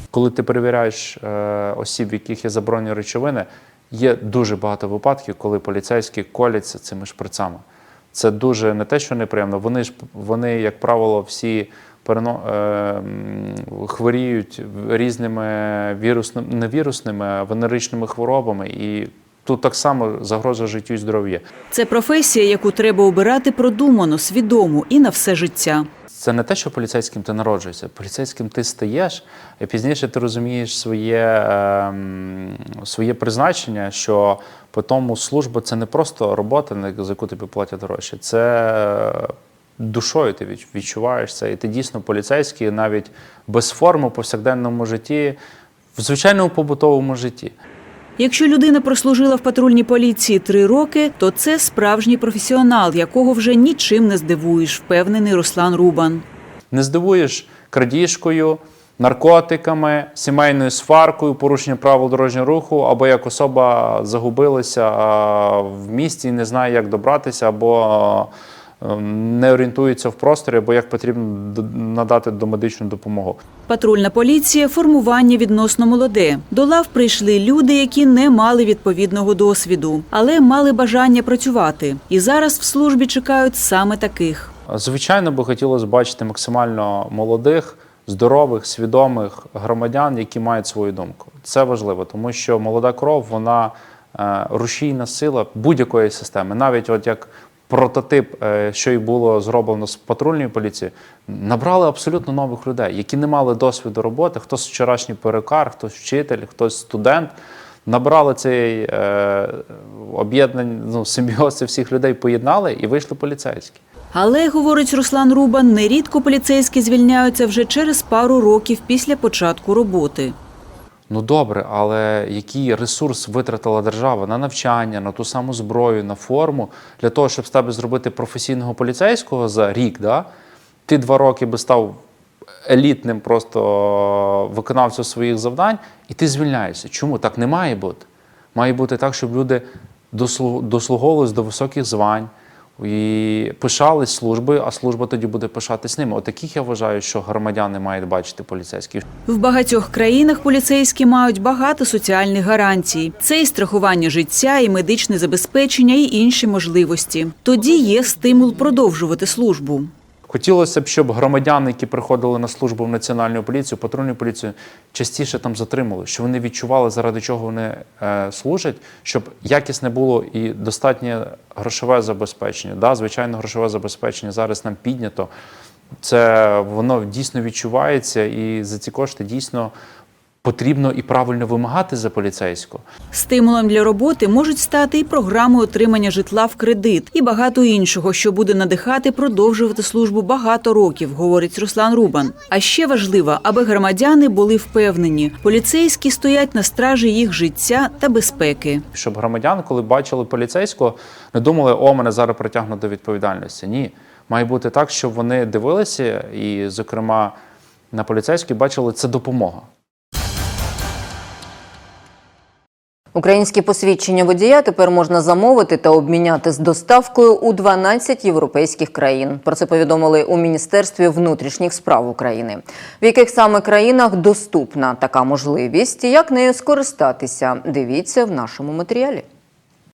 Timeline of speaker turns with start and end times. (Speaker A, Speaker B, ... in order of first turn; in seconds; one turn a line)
Speaker A: 0.1-21.4
Speaker B: 21.7-25.9
Speaker A: 26.1-45.4
Speaker A: 45.9-47.5
Speaker B: 48.2-56.2
Speaker A: 56.7-68.3
Speaker A: 68.8-73.4
Speaker B: 73.7-84.5
Speaker A: 84.7-107.3
Speaker A: 107.8-113.8
Speaker B: 114.1-120.3
Speaker A: 121.1-130.3
Speaker A: 130.8-132.0
Speaker A: 132.7-149.0
Speaker B: 149.3-159.9
Speaker A: 160.3-175.3
Speaker A: 176.0-179.7
Speaker A: 180.4-182.8
Speaker B: 183.1-198.8
Speaker A: 198.9-207.3
Speaker A: 207.9-209.7
Speaker C: 213.1-229.2